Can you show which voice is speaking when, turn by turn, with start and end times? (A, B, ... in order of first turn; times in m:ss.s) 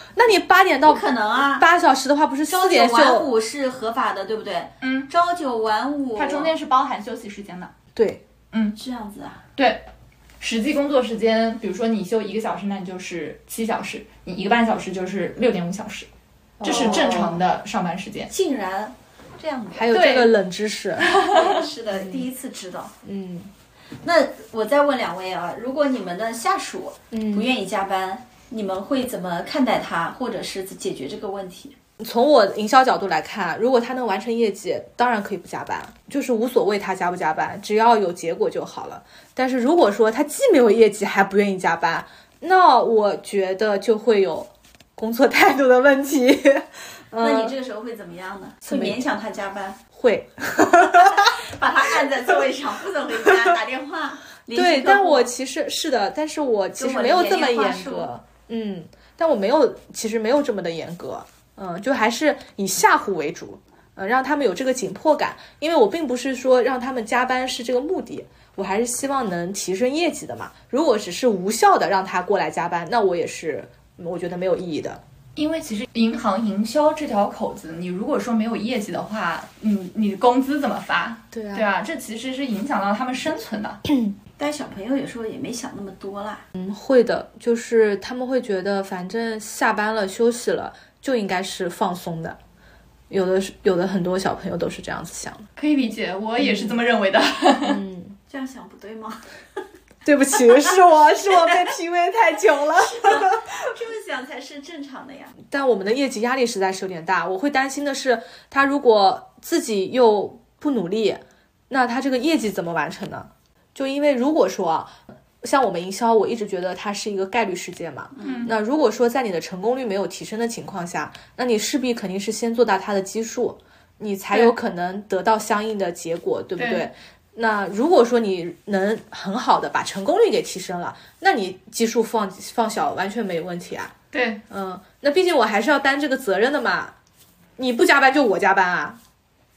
0:00.2-0:03.3 A
0:00.8-0:01.7 B
0:02.4-0:06.5 B
0:04.8-0:05.1 C
0:06.2-0:07.7 C
0:08.0-0:08.2 A
0:08.7-0:09.4 B
0:09.6-0:09.8 C
0:10.4-0:16.1 C
0:16.6-0:17.3 A
0:16.6-0:18.3 C
0:16.6-0:17.4 B
0:18.3-0:20.0 B
0:19.7-0:21.2 A
0:19.9-0:20.3 C
0:21.0-0:21.6 C
0:21.2-0:22.9 B
0:21.9-0:22.2 A
0:23.0-0:23.5 A
0:24.0-0:31.8 B
0:27.1-0:27.5 A
0:32.0-0:47.5 A
0:47.2-0:49.8 B
0:48.7-0:49.1 A
0:49.9-0:51.4 A
0:50.9-0:55.3 B
0:54.5-1:15.0 A
0:56.8-0:58.1 B
1:15.4-1:23.8 C
1:21.3-1:21.7 A
1:23.9-1:24.1 A
1:24.4-1:26.4 B
1:26.5-1:32.4 A
1:33.1-1:35.4 A
1:35.6-1:37.8 C
1:36.4-1:36.8 A
1:37.6-1:38.2 A
1:38.3-1:39.2 B
1:40.0-1:43.5 A
1:41.3-1:41.6 B
1:42.7-1:45.4 B
1:45.4-2:13.9 A
1:58.2-1:58.5 B
1:58.2-1:58.5 C
2:06.6-2:06.9 C
2:14.1-2:14.4 C
2:14.5-2:16.9 A
2:17.6-2:19.0 A